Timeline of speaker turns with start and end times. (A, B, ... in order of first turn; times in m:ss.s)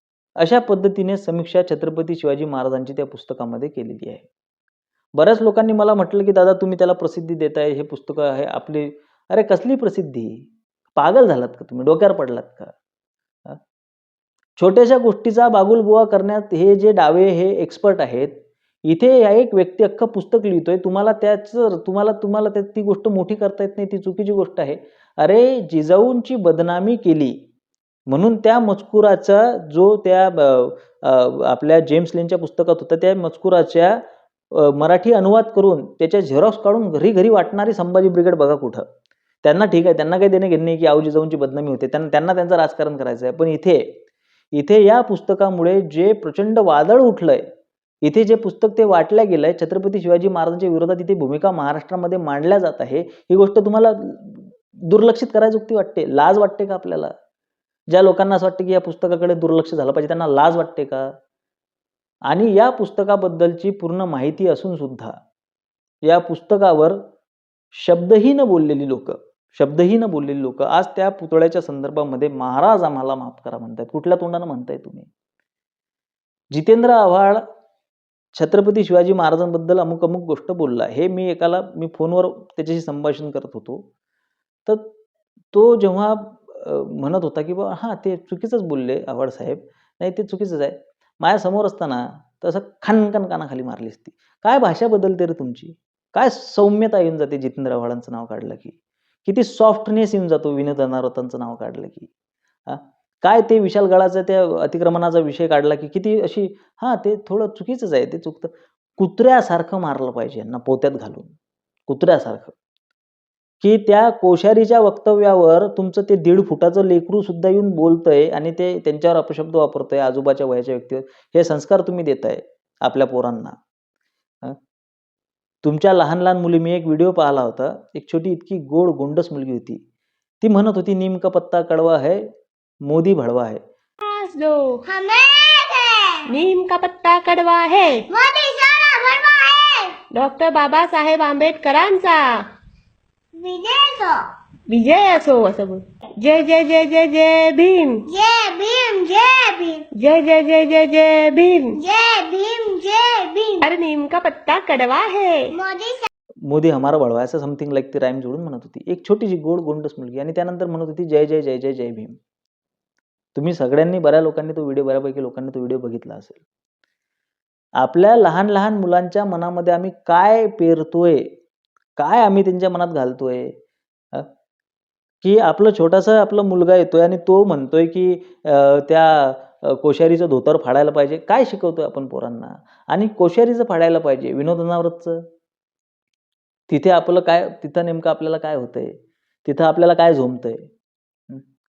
0:00.4-0:04.3 A
0:05.2-0:12.7 A
0:14.6-0:18.3 A
0:18.8-0:27.4 A
0:28.1-0:34.0 A
0:34.5-0:38.8 A
0:39.4-0:44.0 A
0:44.5-0:47.4 A
0:48.0-0:57.1 A
0:57.9-1:01.1 A
1:02.3-1:05.1 A
1:06.1-1:07.0 A
1:07.8-1:15.1 A
1:16.5-1:17.4 A
1:18.3-1:23.9 A
1:24.7-1:24.9 A
1:25.5-1:42.1 A
1:42.7-1:51.4 A
1:51.9-1:52.6 A
1:53.6-2:03.6 A
2:05.6-2:09.8 A
2:10.4-2:12.2 A
2:12.8-2:13.6 A
2:14.0-2:14.8 B
2:14.8-2:16.3 C
2:16.3-2:18.0 B
2:18.1-2:20.0 C
2:20.1-2:22.4 B
2:23.4-2:24.2 C
2:24.7-2:28.1 B
2:28.1-2:29.8 C
2:30.0-2:31.8 B
2:31.8-2:33.6 C
2:33.6-2:35.6 B
2:35.5-2:36.1 C
2:36.5-2:42.2 A
2:43.4-2:46.4 A
2:47.8-2:51.4 A
2:52.0-2:53.6 A
2:55.2-3:05.2 A
3:06.7-3:10.7 A